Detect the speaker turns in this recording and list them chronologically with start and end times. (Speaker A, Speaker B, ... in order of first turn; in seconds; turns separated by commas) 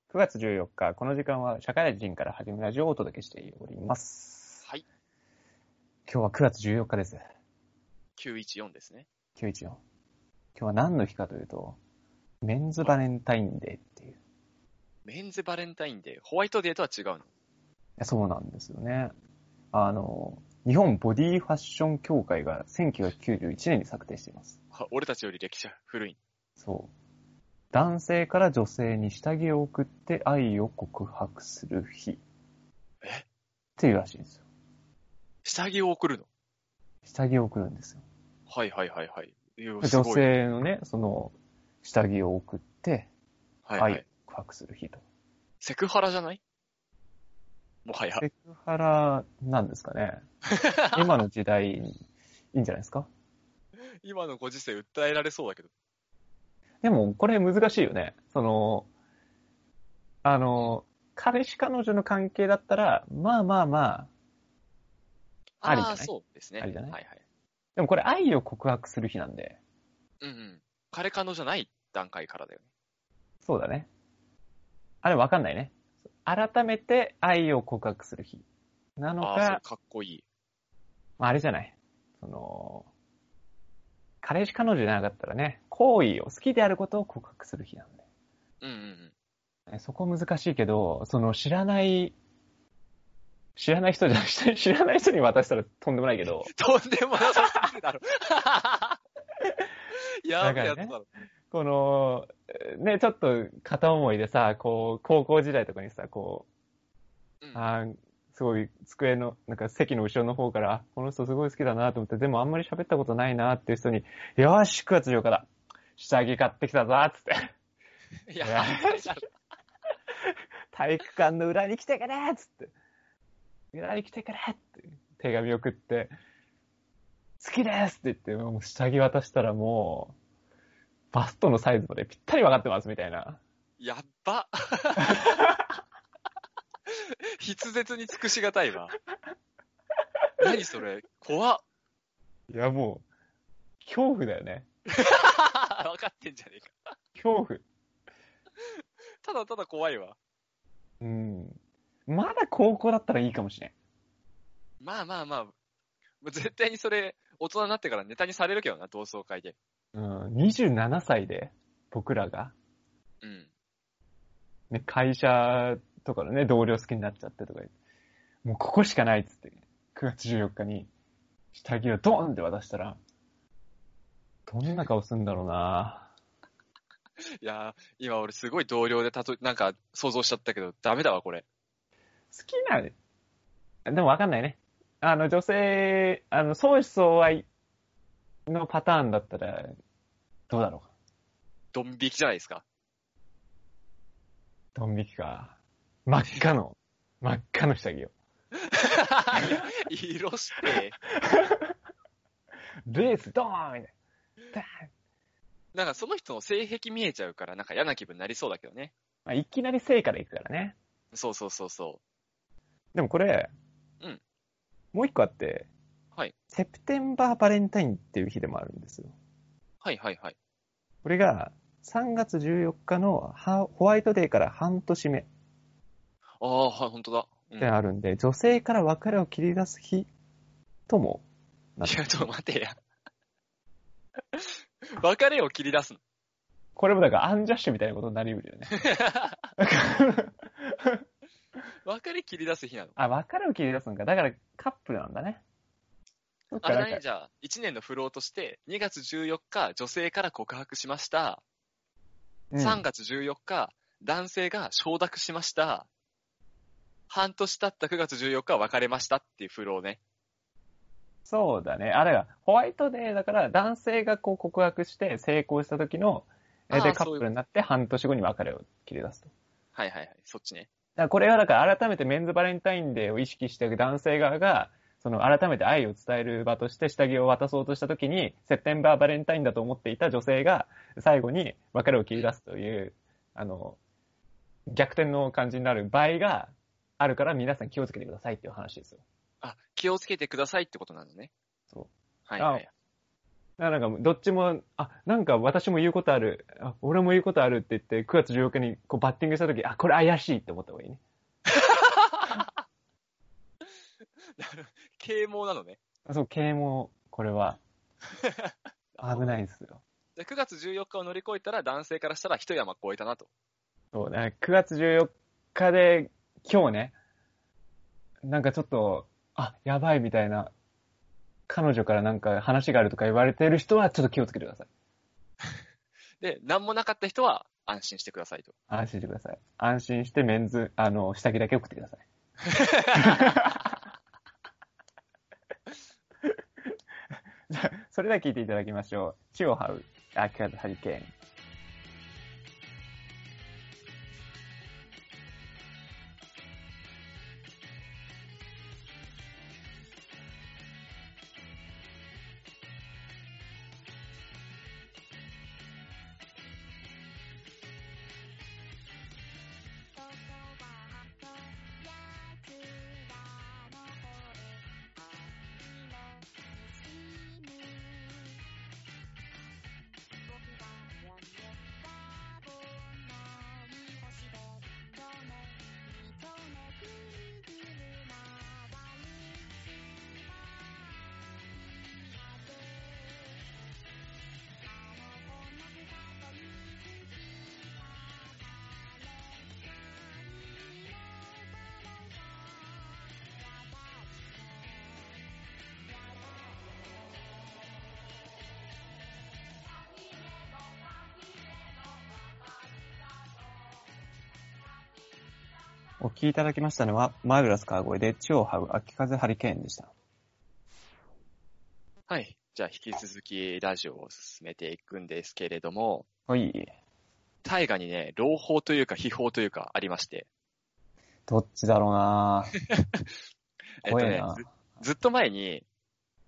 Speaker A: 0.1-4.6, Speaker A: 6.1-7.2, Speaker B: 8.2-9.1, Speaker A: 9.4-9.8, Speaker A: 10.6-11.8, Speaker A: 12.4-14.2, Speaker B: 15.1-17.3, Speaker A: 18.0-19.1, Speaker A: 19.7-24.6, Speaker B: 24.7-26.2, Speaker A: 26.6-26.9, Speaker A: 27.7-32.2, Speaker A: 33.8-34.4, Speaker B: 35.5-36.3, Speaker A: 37.0-38.0, Speaker B: 38.5-40.3, Speaker A: 39.8-43.1, Speaker B: 43.7-44.0, Speaker A: 43.8-45.0, Speaker B: 45.6-46.4, Speaker B: 47.9-48.2, Speaker A: 48.2-50.2, Speaker B: 50.5-51.0, Speaker A: 50.9-52.0, Speaker A: 52.5-53.1, Speaker B: 54.0-55.7, Speaker A: 56.8-58.9, Speaker A: 60.2-64.1, Speaker B: 65.6-67.2, Speaker A: 65.6-67.0, Speaker A: 67.8-69.6, Speaker B: 70.2-72.7, Speaker A: 73.5-73.9, Speaker A: 75.0-78.5, Speaker A: 79.0-79.6, Speaker B: 79.2-80.2, Speaker A: 81.2-82.9, Speaker A: 84.2-88.0, Speaker B: 88.6-89.1, Speaker A: 89.7-92.2, Speaker A: 93.6-96.5, Speaker B: 96.5-99.0, Speaker A: 97.3-97.7, Speaker B: 99.9-101.1, Speaker A: 100.4-101.0, Speaker A: 101.5-106.5, Speaker B: 107.4-107.7, Speaker A: 107.5-117.5, Speaker B: 118.3-119.3, Speaker A: 118.4-119.2, Speaker A: 120.2-122.7, Speaker A: 123.7-126.1, Speaker A: 127.4-130.2, Speaker A: 131.1-133.4, Speaker B: 133.8-135.3, Speaker A: 135.1-135.7, Speaker B: 136.9-139.0, Speaker B: 140.4-141.6, Speaker A: 142.5-143.1, Speaker A: 143.8-144.7, Speaker B: 144.9-146.9, Speaker A: 147.2-147.7, Speaker B: 149.2-150.2, Speaker A: 151.0-153.7, Speaker B: 154.8-155.5, Speaker B: 156.2-159.6, Speaker A: 159.9-162.6, Speaker B: 163.2-163.5, Speaker A: 164.7-167.7, Speaker A: 168.4-170.9, Speaker A: 171.5-173.0, Speaker A: 174.5-176.1, Speaker B: 177.4-181.4, Speaker A: 182.3-182.9, Speaker A: 183.9-187.5, Speaker A: 188.5-189.8, Speaker A: 190.5-190.9, Speaker B: 191.7-192.6, Speaker A: 194.8-198.1, Speaker B: 198.7-201.0, Speaker A: 200.7-201.7, Speaker A: 202.9-203.9, Speaker A: 204.5-204.9, Speaker B: 205.7-208.9, Speaker A: 209.3-210.8, Speaker B: 211.1-212.0, Speaker A: 212.9-213.5, Speaker A: 214.9-215.7, Speaker A: 216.5-219.1, Speaker B: 219.8-220.4, Speaker A: 221.0-225.3, Speaker B: 226.4-227.7, Speaker A: 227.6-230.1, Speaker A: 230.9-231.2, Speaker B: 231.8-232.8, Speaker B: 234.3-236.0, Speaker A: 236.8-238.7, Speaker B: 238.7-239.5, Speaker A: 239.6-241.0, Speaker B: 241.8-243.0, Speaker A: 243.0-245.4, Speaker A: 246.5-247.0, Speaker B: 246.6-251.4, Speaker A: 252.5-252.8, Speaker B: 252.6-255.9, Speaker B: 257.1-260.0, Speaker A: 261.3-269.3, Speaker B: 266.7-267.3, Speaker B: 269.8-270.7, Speaker A: 271.0-283.8, Speaker A: 284.7-289.0, Speaker B: 289.4-291.3, Speaker A: 291.7-292.6, Speaker B: 292.3-292.7, Speaker A: 293.6-301.0, Speaker B: 301.5-302.4, Speaker B: 304.4-305.8, Speaker A: 306.1-307.6, Speaker B: 308.2-309.4, Speaker A: 309.0-309.8, Speaker B: 310.2-313.3, Speaker A: 313.9-317.0, Speaker A: 318.2-320.5, Speaker A: 321.5-324.7, Speaker B: 326.2-328.5, Speaker A: 328.7-332.1, Speaker B: 332.5-333.3, Speaker A: 332.9-333.8, Speaker A: 337.5-341.1, Speaker C: 359.9-368.4, Speaker C: 370.2-383.5, Speaker C: 384.6-395.3, Speaker C: 395.8-397.6, Speaker C: 399.6-403.6, Speaker A: 406.0-409.9, Speaker B: 412.1-416.1, Speaker A: 416.3-416.7, Speaker B: 417.4-420.3, Speaker A: 421.3-422.5, Speaker B: 422.7-423.1, Speaker B: 423.8-425.6, Speaker A: 423.8-424.5